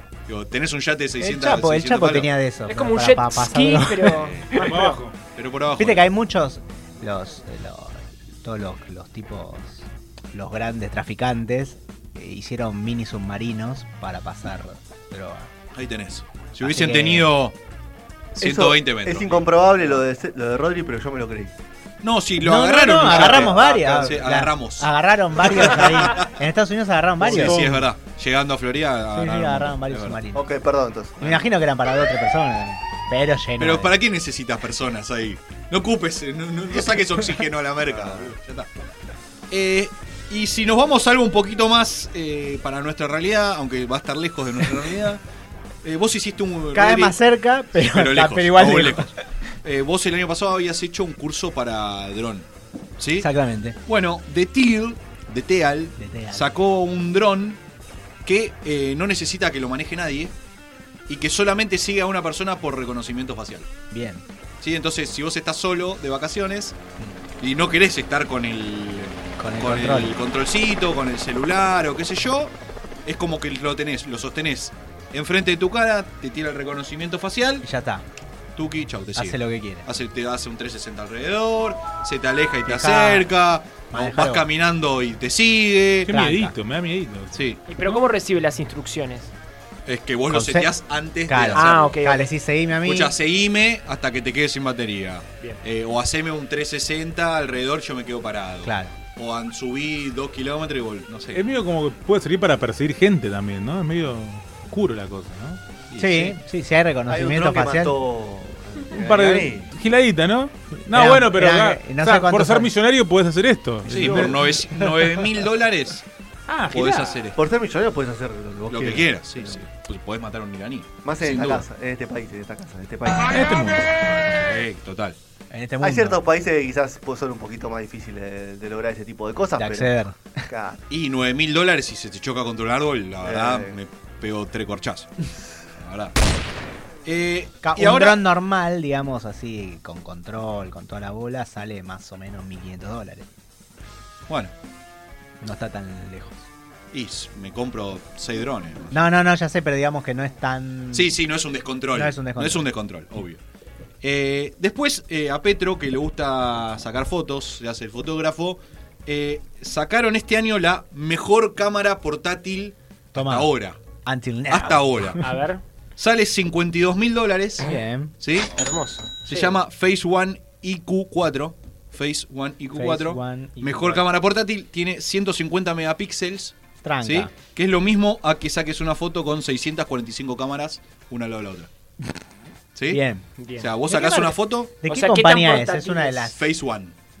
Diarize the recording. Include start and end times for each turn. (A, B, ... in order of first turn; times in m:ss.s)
0:00.3-0:02.3 A
0:01.2-0:04.7 B
0:02.7-0:05.0 C
0:04.1-0:04.7 A
0:04.5-0:05.2 D
0:05.3-0:06.1 A
0:05.8-0:15.5 B
0:15.7-0:17.6 A
0:16.6-0:17.3 B
0:18.3-0:20.0 A
0:18.4-0:21.5 E
0:22.0-0:26.3 A
0:22.4-0:27.7 B
0:23.0-0:24.1 E
0:27.2-0:30.2 A
0:27.4-0:27.8 D
0:29.1-0:30.5 B
0:30.3-0:31.4 E
0:31.2-0:33.9 B
0:33.6-0:38.7 A
0:37.9-0:38.3 E
0:39.5-0:45.2 A
0:45.8-0:47.2 A
0:46.7-0:49.2 B
0:47.7-0:52.5 A
0:53.0-0:53.3 A
0:53.2-0:53.8 B
0:53.8-0:57.6 A
0:56.0-0:56.5 B
0:58.2-1:00.3 A
1:01.1-1:03.7 A
1:03.9-1:04.2 B
1:04.6-1:06.8 A
1:07.4-1:12.5 A
1:09.4-1:10.1 B
1:13.0-1:17.6 A
1:17.6-1:18.0 B
1:18.5-1:26.1 A
1:19.1-1:19.8 B
1:22.7-1:23.3 B
1:23.9-1:24.5 B
1:26.1-1:26.6 B
1:26.1-1:28.0 D
1:27.3-1:27.6 A
1:27.7-1:29.3 C
1:29.8-1:32.0 A
1:30.3-1:30.7 B
1:31.2-1:33.1 B
1:31.5-1:32.3 C
1:32.8-1:41.5 A
1:38.6-1:38.9 B
1:41.3-1:45.6 D
1:45.9-1:46.4 A
1:46.0-1:48.0 B
1:47.1-1:49.7 E
1:48.9-1:54.6 D
1:50.9-1:52.7 B
1:53.8-1:56.0 A
1:56.5-1:57.2 D
1:56.7-1:57.4 A
1:57.3-1:59.6 E
1:58.7-2:01.7 A
2:01.0-2:03.4 E
2:03.1-2:03.9 D
2:04.2-2:05.2 A
2:05.5-2:06.2 B
2:05.8-2:09.9 E
2:09.6-2:10.4 B
2:10.5-2:10.8 E
2:10.9-2:15.1 A
2:13.2-2:13.8 E
2:15.8-2:16.2 A
2:17.0-2:18.2 A
2:17.6-2:23.3 B
2:25.4-2:26.4 B
2:26.9-2:29.0 A
2:28.9-2:31.2 B
2:30.9-2:33.4 A
2:31.9-2:32.7 B
2:34.0-2:43.8 A
2:43.1-2:43.5 B
2:44.0-2:45.3 B
2:44.5-2:45.2 A
2:45.2-2:45.6 C
2:46.0-2:47.7 A
2:47.6-2:48.1 B
2:48.2-2:48.5 A
2:48.5-2:49.6 C
2:49.2-3:01.7 A
2:52.7-2:54.0 B
2:56.8-2:57.3 B
3:02.7-3:03.0 A
3:02.9-3:03.2 B
3:03.4-3:03.7 C
3:03.6-3:04.7 A
3:03.8-3:06.4 B
3:04.8-3:06.3 C
3:06.3-3:07.0 A